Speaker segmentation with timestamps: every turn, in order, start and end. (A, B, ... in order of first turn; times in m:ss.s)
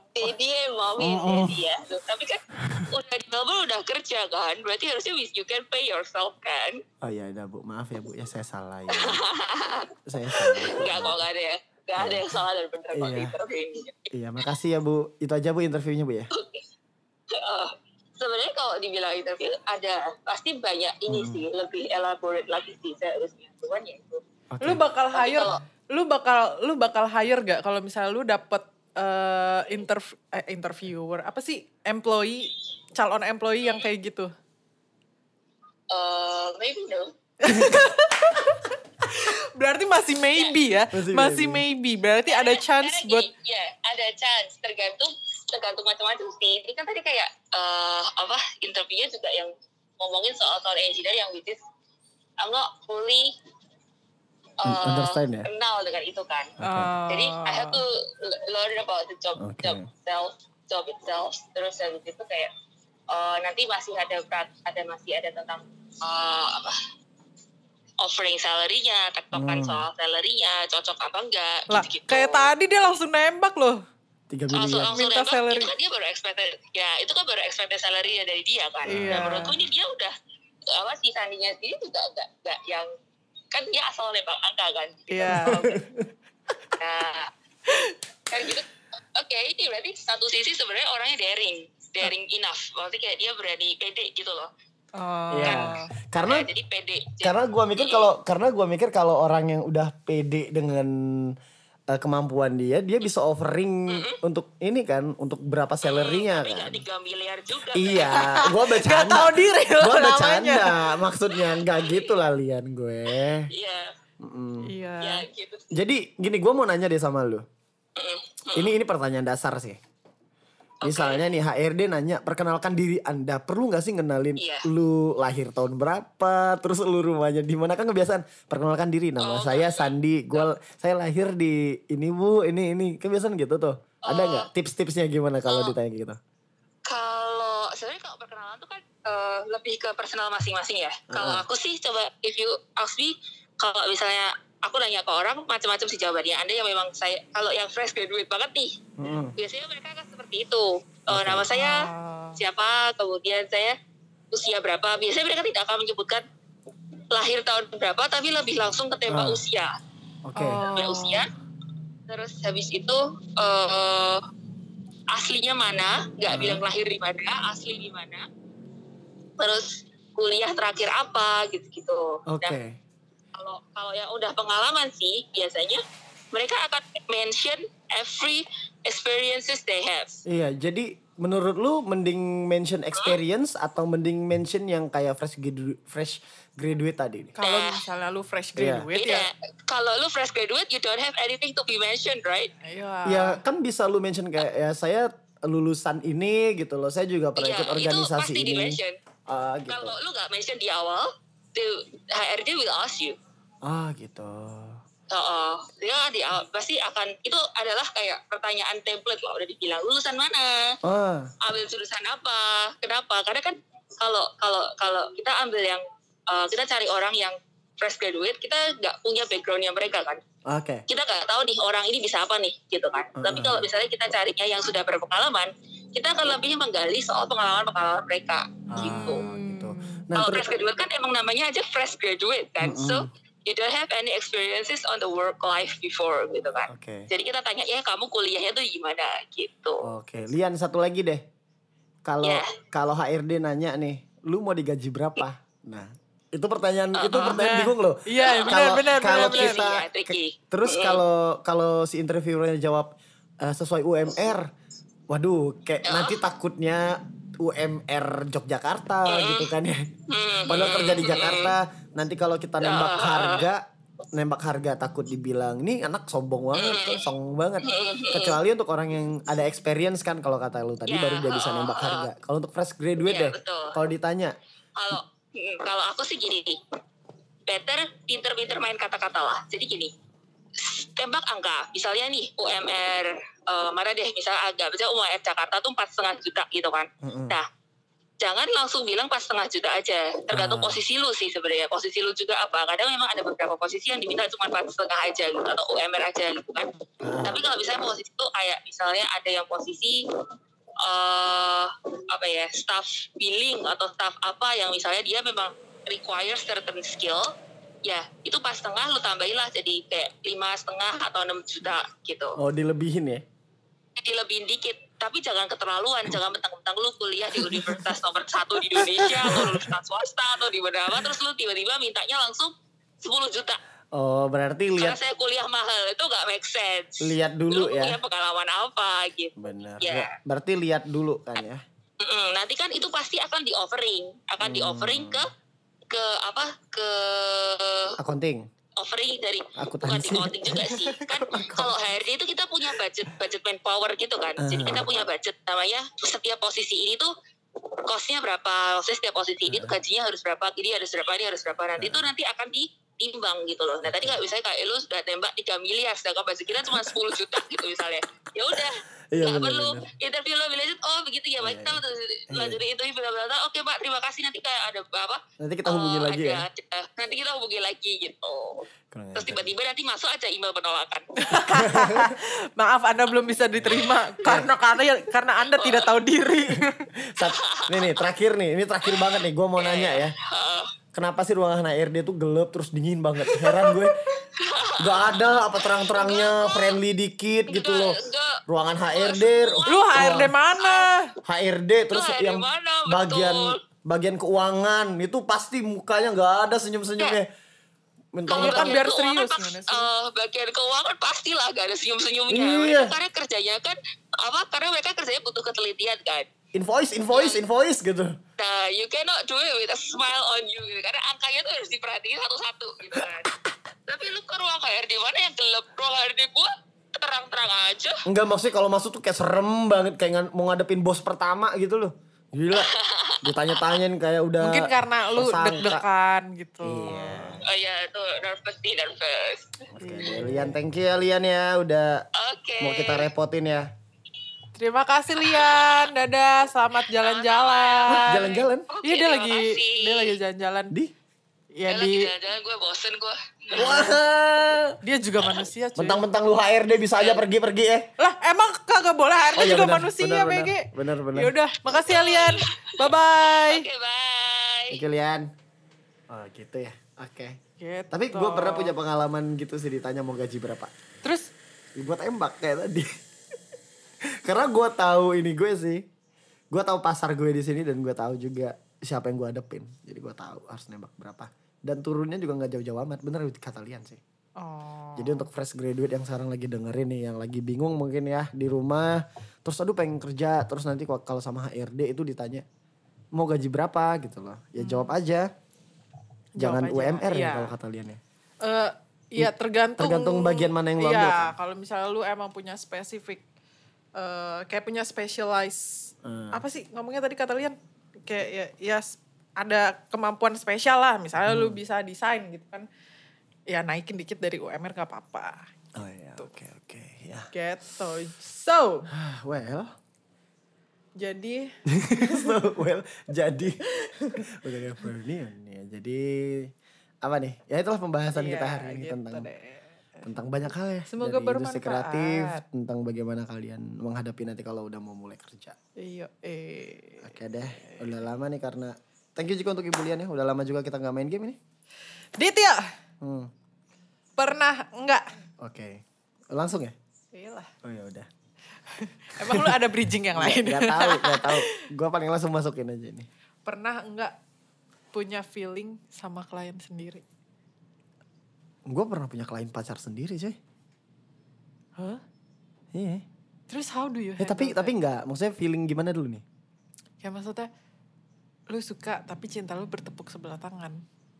0:00.2-0:06.8 A
0:01.0-0:01.6 B
0:07.0-0:09.2 B
0:08.9-0:14.1 A
0:10.0-0:11.2 B
0:12.0-0:12.4 B
0:12.9-0:13.3 B
0:14.1-0:16.3 B
0:16.3-0:16.6 A
0:17.3-0:24.2 A
0:21.1-0:21.4 B
0:24.5-0:24.8 B
0:24.6-0:34.3 C
0:25.1-0:25.6 A
0:35.9-0:37.1 A
0:37.4-0:43.3 C
0:37.5-0:37.8 B
0:40.9-0:41.6 B
0:42.3-0:51.6 A
0:52.4-0:53.3 A
0:54.6-0:56.6 A
0:54.6-0:55.5 B
0:56.6-0:56.9 B
0:56.6-0:57.8 C
0:57.1-1:02.5 A
0:59.4-0:59.8 B
1:03.1-1:06.8 A
1:08.0-1:12.5 A
1:09.3-1:09.9 B
1:11.7-1:13.8 C
1:14.3-1:15.0 B
1:14.5-1:20.1 A
1:14.9-1:15.7 C
1:18.8-1:19.5 B
1:18.9-1:19.5 C
1:20.7-1:22.9 A
1:23.5-1:25.8 A
1:25.1-1:25.6 C
1:25.3-1:26.1 B
1:26.8-1:27.3 A
1:27.7-1:27.9 C
1:28.3-1:34.5 A
1:35.0-1:35.9 C
1:35.3-1:36.5 B
1:35.4-1:38.1 A
1:37.2-1:41.3 B
1:41.9-1:46.8 B
1:43.9-1:44.2 A
1:45.8-1:48.3 A
1:47.7-1:53.5 B
1:48.0-1:50.8 C
1:51.6-1:52.2 A
1:53.3-1:53.9 A
1:54.2-1:54.7 B
1:54.6-1:55.2 C
1:55.0-1:55.7 A
1:55.7-1:57.4 B
1:58.0-1:58.7 A
1:58.5-1:59.8 B
2:00.8-2:01.2 A
2:00.8-2:16.2 B
2:04.4-2:04.7 A
2:09.2-2:10.5 A
2:14.0-2:14.5 A
2:15.5-2:15.7 A
2:16.8-2:28.8 A
2:21.1-2:21.4 B
2:29.0-2:29.3 B
2:29.4-2:33.8 A
2:31.1-2:31.5 B
2:31.5-2:32.4 C
2:34.3-2:36.2 A
2:37.1-2:39.7 A
2:39.1-2:39.4 B
2:40.2-2:40.6 B
2:40.4-2:41.2 C
2:40.7-2:41.3 A
2:42.1-2:44.2 A
2:45.1-2:48.2 A
2:46.3-2:46.6 B
2:49.4-2:52.6 A
2:52.3-2:52.8 B
2:53.3-3:00.2 A
3:00.2-3:07.3 B
3:07.4-3:09.3 C
3:07.4-3:07.8 A
3:08.6-3:08.9 B
3:08.9-3:12.5 A
3:12.6-3:13.4 C
3:13.0-3:20.0 B
3:17.4-3:19.0 A
3:19.7-3:23.2 A
3:23.6-3:24.8 B
3:25.1-3:30.8 A
3:30.8-3:31.3 B
3:31.4-3:40.2 A
3:40.5-3:40.8 B
3:40.9-3:49.2 A
3:43.2-3:43.6 B
3:48.7-3:50.5 B
3:48.8-3:50.0 C
3:50.1-3:59.9 A
3:52.6-3:53.1 B
3:56.7-3:57.1 B
3:59.8-4:01.2 B
4:02.0-4:14.5 B
4:02.2-4:02.5 A
4:06.9-4:07.4 A
4:07.1-4:09.7 C
4:08.2-4:11.0 A
4:15.1-4:19.9 B
4:15.8-4:16.2 A
4:19.1-4:19.5 A
4:20.1-4:21.5 A
4:20.5-4:34.4 B
4:22.6-4:23.5 A
4:26.5-4:27.0 A
4:27.6-4:28.4 A
4:30.9-4:32.1 A
4:33.0-4:33.8 A
4:34.8-4:36.6 A
4:37.5-4:39.9 A
4:40.6-4:47.4 A
4:47.0-4:47.4 B
4:48.2-5:00.0 A
4:50.3-4:50.8 B
4:57.0-4:57.4 B
5:00.8-5:07.3 A
5:07.8-5:12.4 A
5:12.4-5:13.2 B
5:14.0-5:23.6 A
5:17.4-5:17.8 B
5:18.7-5:19.7 B
5:23.9-5:25.0 B
5:24.8-5:30.1 A
5:27.0-5:28.0 B
5:29.4-5:31.6 B
5:32.0-5:35.3 A
5:34.4-5:35.2 B
5:35.9-5:38.0 A
5:38.0-5:38.4 B
5:38.8-5:47.1 A
5:39.6-5:41.7 B
5:44.4-5:44.9 B
5:47.9-6:11.1 A
5:49.5-5:49.8 B
5:51.8-5:52.1 B
5:53.8-5:54.2 B
5:58.5-5:59.9 B
6:01.4-6:02.6 B
6:05.4-6:06.4 B
6:08.9-6:09.5 B
6:11.2-6:16.9 C
6:11.4-6:12.1 B
6:14.2-6:14.5 B
6:15.6-6:15.9 A
6:16.5-6:20.1 B
6:17.2-6:18.0 A
6:18.8-6:20.7 A
6:20.9-6:24.0 B
6:23.2-6:24.2 C
6:24.4-6:26.8 A
6:24.8-6:30.3 B
6:27.5-6:30.9 A
6:29.7-6:31.1 C
6:31.2-6:37.3 B
6:31.9-6:33.6 A
6:38.1-6:38.9 B
6:38.3-6:46.3 A
6:38.3-6:39.9 C
6:42.3-6:42.9 B
6:46.5-6:48.2 B
6:47.1-6:47.4 A
6:48.4-6:53.3 A
6:53.9-6:58.0 A
6:58.0-7:05.8 B
7:02.5-7:03.4 A
7:04.4-7:07.4 C
7:06.6-7:07.4 B
7:07.4-7:09.6 A
7:09.7-7:12.0 B
7:09.8-7:10.6 C
7:12.1-7:13.1 A
7:12.6-7:13.7 B
7:14.6-7:20.7 C
7:15.3-7:15.7 A
7:16.9-7:18.2 A
7:17.9-7:18.7 B
7:18.7-7:20.2 A
7:21.5-7:22.1 C
7:21.7-7:23.8 A
7:23.6-7:24.0 C
7:23.6-7:24.8 B
7:24.8-7:26.0 C
7:25.8-7:27.9 B
7:27.0-7:27.2 A
7:28.0-7:33.7 C
7:29.4-7:31.4 B
7:31.7-7:34.8 A
7:34.7-7:35.3 B
7:36.1-7:37.4 B
7:37.6-7:38.8 C
7:37.9-7:40.7 B
7:41.0-7:41.3 C
7:41.8-7:42.9 B
7:44.1-7:45.8 B
7:46.5-7:54.0 B
7:54.4-7:55.3 C
7:55.0-8:02.4 B
8:03.2-8:05.3 B
8:04.6-8:05.0 C
8:06.4-8:07.5 C
8:06.4-8:08.0 B
8:08.4-8:13.2 C
8:09.2-8:11.3 B
8:14.0-8:22.7 C
8:16.0-8:16.4 B
8:21.2-8:21.6 B
8:23.5-8:25.4 C
8:25.7-8:27.3 B
8:27.3-8:28.9 C
8:28.9-8:29.7 B
8:31.0-8:32.4 C
8:31.7-8:33.6 B
8:33.7-8:34.3 C
8:34.1-8:36.5 B
8:37.0-8:39.3 B
8:38.1-8:40.1 C
8:40.0-8:45.6 B
8:40.9-8:42.4 C
8:45.8-8:47.9 C
8:47.0-8:51.4 B
8:52.2-8:52.6 C
8:53.0-8:53.3 B
8:54.2-8:55.0 C
8:55.4-8:56.7 B
8:57.1-8:57.5 C
8:57.6-8:58.1 B
8:58.7-9:01.6 C
8:59.2-8:59.6 B
9:00.1-9:03.1 B
9:03.4-9:04.1 C
9:04.9-9:07.0 C
9:08.7-9:10.4 B
9:11.8-9:12.0 C
9:12.7-9:13.0 B
9:13.5-9:14.7 C
9:14.2-9:16.2 B
9:17.0-9:17.5 C
9:18.5-9:20.8 C